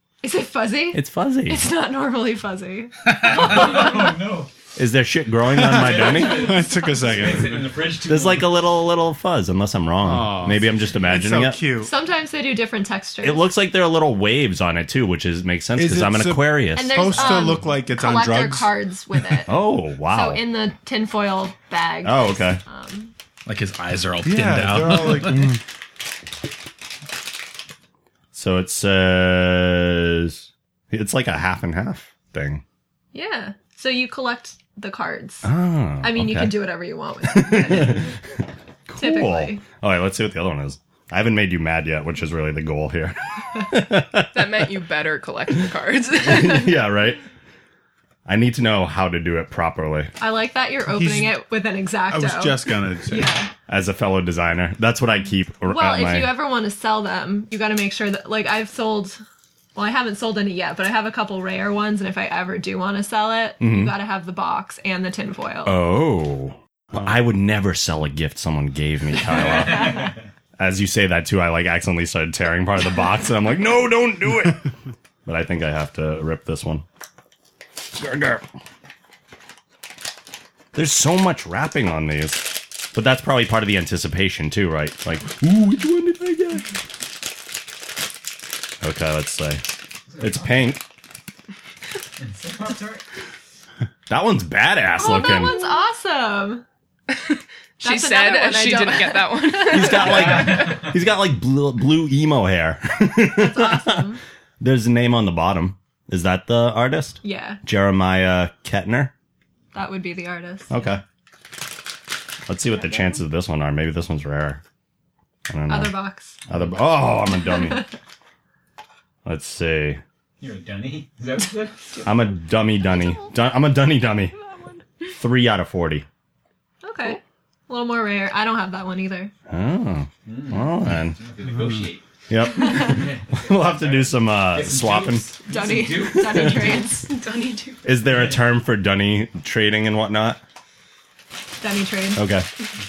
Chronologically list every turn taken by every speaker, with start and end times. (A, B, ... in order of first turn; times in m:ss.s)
0:00.2-0:04.2 A
0:00.9-0:01.6 B
0:03.1-0:04.5 C
0:04.8-0:06.6 B
0:05.5-0:07.8 D
0:05.6-0:08.5 C
0:08.1-0:11.6 B
0:10.0-0:11.9 D
0:11.8-0:13.5 A
0:13.2-0:17.5 B
0:15.8-0:18.7 D
0:16.8-0:23.1 A
0:19.5-0:20.4 B
0:22.0-0:22.6 B
0:23.5-0:25.5 E
0:24.2-0:25.6 D
0:28.3-0:32.6 B
0:33.1-0:35.5 A
0:35.4-0:36.6 B
0:36.0-0:38.2 A
0:37.2-0:38.1 B
0:38.9-0:44.6 B
0:39.0-0:39.6 A
0:44.3-0:46.8 F
0:46.1-0:47.2 B
0:48.3-0:50.1 B
0:50.2-0:53.5 A
0:50.9-0:51.4 D
0:52.1-0:53.4 D
0:53.7-0:56.3 B
0:55.7-0:59.2 A
0:59.8-1:05.8 A
1:03.6-1:03.9 B
1:05.6-1:14.7 B
1:09.6-1:10.1 C
1:15.3-1:16.8 B
1:17.9-1:18.5 B
1:20.7-1:26.7 B
1:28.8-1:29.6 B
1:30.1-1:30.5 C
1:30.2-1:30.8 B
1:32.2-1:33.0 C
1:34.1-1:35.6 B
1:35.0-1:36.6 A
1:37.1-1:40.5 F
1:37.8-1:40.0 A
1:39.7-1:44.1 B
1:40.0-1:41.0 C
1:43.3-1:44.2 A
1:44.6-1:49.1 B
1:47.2-1:47.6 A
1:49.7-1:50.7 A
1:50.7-1:51.0 B
1:52.5-1:54.6 B
1:55.5-1:55.9 B
1:55.7-1:56.4 A
1:56.5-1:57.9 B
1:57.5-1:57.9 A
1:59.2-2:00.0 B
2:00.4-2:02.0 C
2:02.0-2:04.3 B
2:02.9-2:03.2 A
2:04.4-2:04.8 A
2:05.2-2:06.1 B
2:06.8-2:09.3 A
2:09.5-2:11.2 B
2:10.3-2:12.0 C
2:12.3-2:15.3 B
2:12.6-2:12.9 A
2:12.7-2:16.8 C
2:15.4-2:17.2 A
2:16.2-2:16.6 B
2:17.1-2:17.8 F
2:17.8-2:20.4 B
2:18.1-2:18.4 C
2:21.6-2:22.3 A
2:22.2-2:22.5 B